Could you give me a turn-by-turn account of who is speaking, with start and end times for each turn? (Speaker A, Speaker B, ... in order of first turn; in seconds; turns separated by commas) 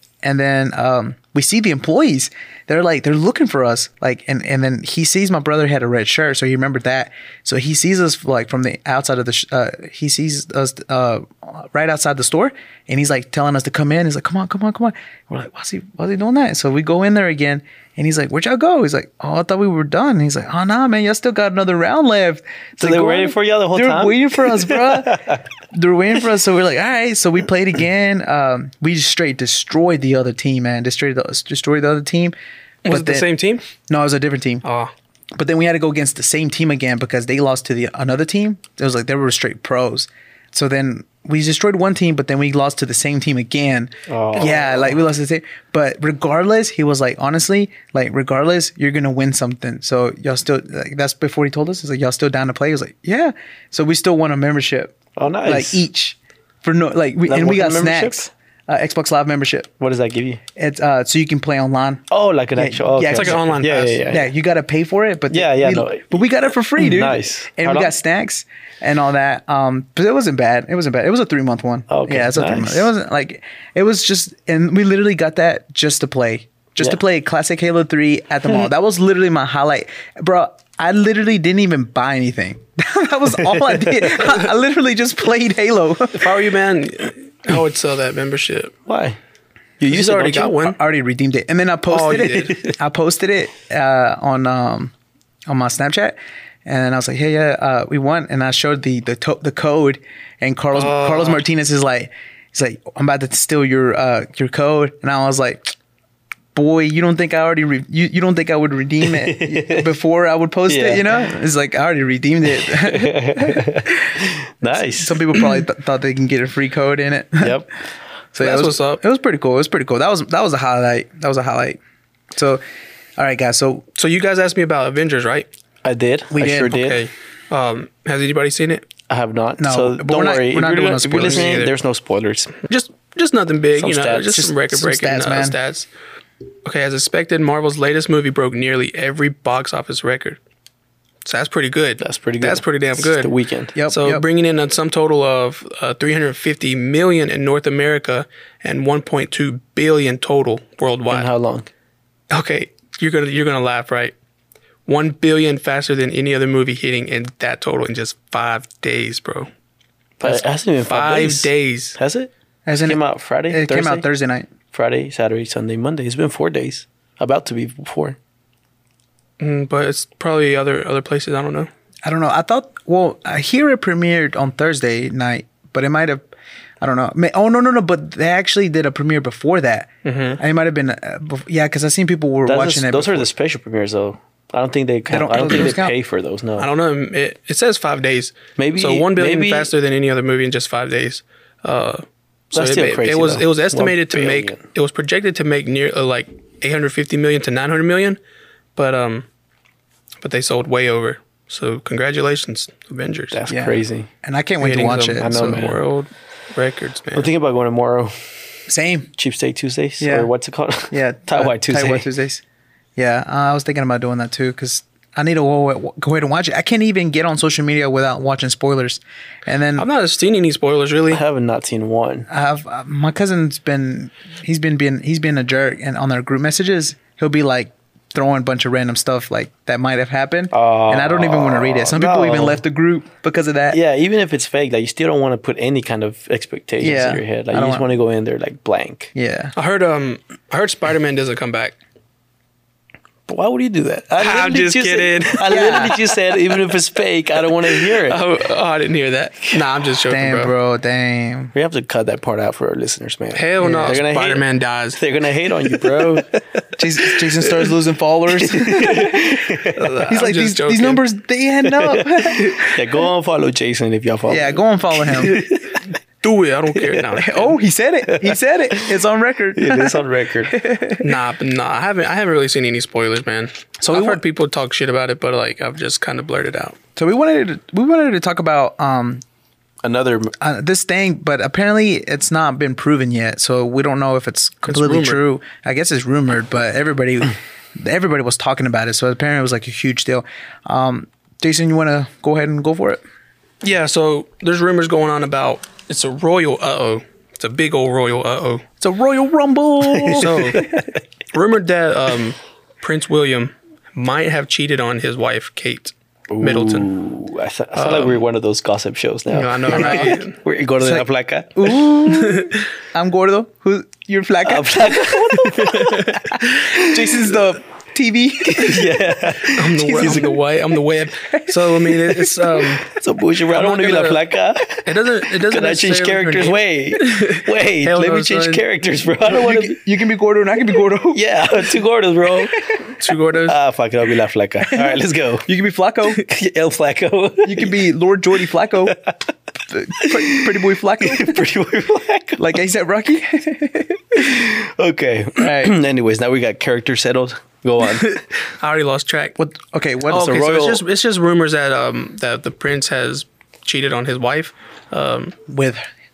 Speaker A: 0.2-32.3, Speaker B: 22.8-25.4, Speaker C: 32.8-33.6, Speaker A: 32.9-33.3, Speaker A: 33.9-34.6, Speaker C: 34.6-34.9, Speaker A: 35.4-59.7, Speaker B: 44.1-45.0, Speaker B: 55.1-55.8, Speaker B: 57.2-58.3, Speaker B: 59.8-60.4, Speaker A: 60.5-62.0, Speaker B: 62.1-64.3, Speaker A: 62.5-63.5, Speaker C: 63.1-64.1, Speaker A: 64.1-86.3, Speaker B: 65.3-67.9, Speaker B: 71.9-72.9, Speaker B: 83.4-84.4, Speaker C: 86.1-88.7, Speaker B: 88.9-89.2, Speaker B: 89.8-90.7, Speaker C: 89.9-90.8, Speaker A: 90.1-94.9, Speaker C: 91.9-92.6, Speaker A: 95.5-105.7, Speaker C: 100.7-101.4, Speaker A: 106.5-117.6, Speaker B: 109.0-109.9, Speaker B: 110.7-111.3, Speaker B: 112.5-115.4, Speaker B: 117.4-117.7, Speaker A: 118.3-121.8, Speaker C: 118.4-119.0, Speaker A: 122.3-122.6, Speaker A: 123.2-123.8, Speaker C: 124.0-125.5, Speaker B: 125.8-127.1, Speaker A: 126.3-126.8, Speaker C: 126.6-128.8, Speaker B: 129.1-132.6, Speaker A: 129.6-131.6, Speaker C: 131.2-131.7, Speaker C: 132.7-135.9, Speaker B: 133.7-134.5, Speaker A: 134.3-135.6, Speaker C: 136.6-140.4, Speaker C: 141.2-143.3, Speaker B: 142.0-143.7, Speaker A: 143.8-144.2, Speaker C: 143.9-151.3, Speaker B: 151.1-151.7, Speaker C: 152.3-154.1, Speaker C: 154.8-159.5, Speaker B: 160.2-164.0, Speaker C: 160.2-162.0, Speaker A: 162.7-164.5, Speaker B: 164.7-168.2, Speaker C: 169.4-171.7, Speaker A: 172.0-176.2, Speaker A: 176.8-179.9, Speaker C: 180.0-180.4, Speaker A: 180.4-183.3, Speaker B: 182.4-186.7, Speaker A: 185.1-185.9, Speaker C: 186.6-198.2, Speaker B: 188.6-189.7, Speaker B: 192.5-194.6, Speaker C: 198.8-199.2, Speaker C: 200.2-203.4, Speaker B: 203.3-204.1, Speaker A: 203.5-205.7, Speaker C: 204.6-207.3, Speaker B: 205.2-205.8, Speaker B: 207.1-208.4, Speaker A: 208.7-209.1, Speaker B: 209.1-212.1, Speaker A: 210.0-210.3, Speaker A: 210.9-212.4, Speaker A: 212.9-219.8, Speaker C: 219.8-221.2, Speaker B: 221.1-222.3, Speaker A: 222.3-233.8, Speaker B: 230.5-232.6, Speaker B: 233.7-239.1, Speaker A: 236.8-237.9, Speaker A: 239.1-239.5, Speaker C: 239.6-241.8, Speaker B: 243.3-248.2, Speaker C: 244.2-246.0, Speaker A: 245.5-245.9, Speaker C: 247.7-250.5, Speaker A: 250.1-251.5, Speaker B: 251.5-256.4, Speaker C: 253.3-255.0, Speaker A: 253.6-253.9, Speaker A: 256.8-259.4, Speaker B: 258.3-260.0, Speaker C: 259.7-261.0, Speaker A: 260.1-263.0, Speaker B: 261.8-265.8, Speaker A: 264.3-265.4, Speaker C: 266.2-267.6, Speaker B: 266.7-267.1, Speaker A: 267.2-271.0, Speaker B: 268.1-268.4, Speaker B: 269.5-270.6, Speaker C: 271.0-276.8, Speaker A: 273.8-274.2, Speaker A: 276.9-279.2, Speaker B: 279.8-280.3, Speaker A: 280.4-293.0, Speaker C: 284.6-285.2, Speaker C: 293.6-298.6, Speaker A: 298.8-300.7, Speaker B: 299.9-300.9, Speaker C: 300.1-300.6, Speaker C: 301.3-306.9, Speaker B: 306.3-311.9, Speaker C: 307.7-308.2, Speaker C: 309.3-310.4, Speaker A: 309.7-310.2, Speaker A: 310.8-319.0, Speaker C: 312.1-312.6, Speaker B: 314.4-317.3, Speaker C: 315.7-316.3, Speaker B: 318.4-320.4, Speaker C: 319.5-322.9, Speaker A: 319.8-320.3, Speaker A: 321.3-322.4, Speaker B: 322.8-329.8, Speaker C: 323.5-324.2, Speaker C: 324.8-328.6, Speaker A: 329.2-331.2, Speaker B: 331.1-332.5, Speaker C: 333.0-333.6, Speaker B: 333.3-335.5, Speaker A: 334.6-336.2, Speaker B: 336.2-337.8, Speaker A: 337.4-339.0, Speaker B: 338.9-339.2, Speaker A: 339.7-341.4, Speaker B: 340.0-342.6, Speaker A: 342.4-344.3, Speaker B: 344.1-348.2, Speaker A: 345.4-345.8, Speaker C: 347.9-349.4, Speaker A: 349.4-350.3, Speaker B: 350.1-350.8, Speaker C: 350.1-355.3, Speaker A: 355.5-355.9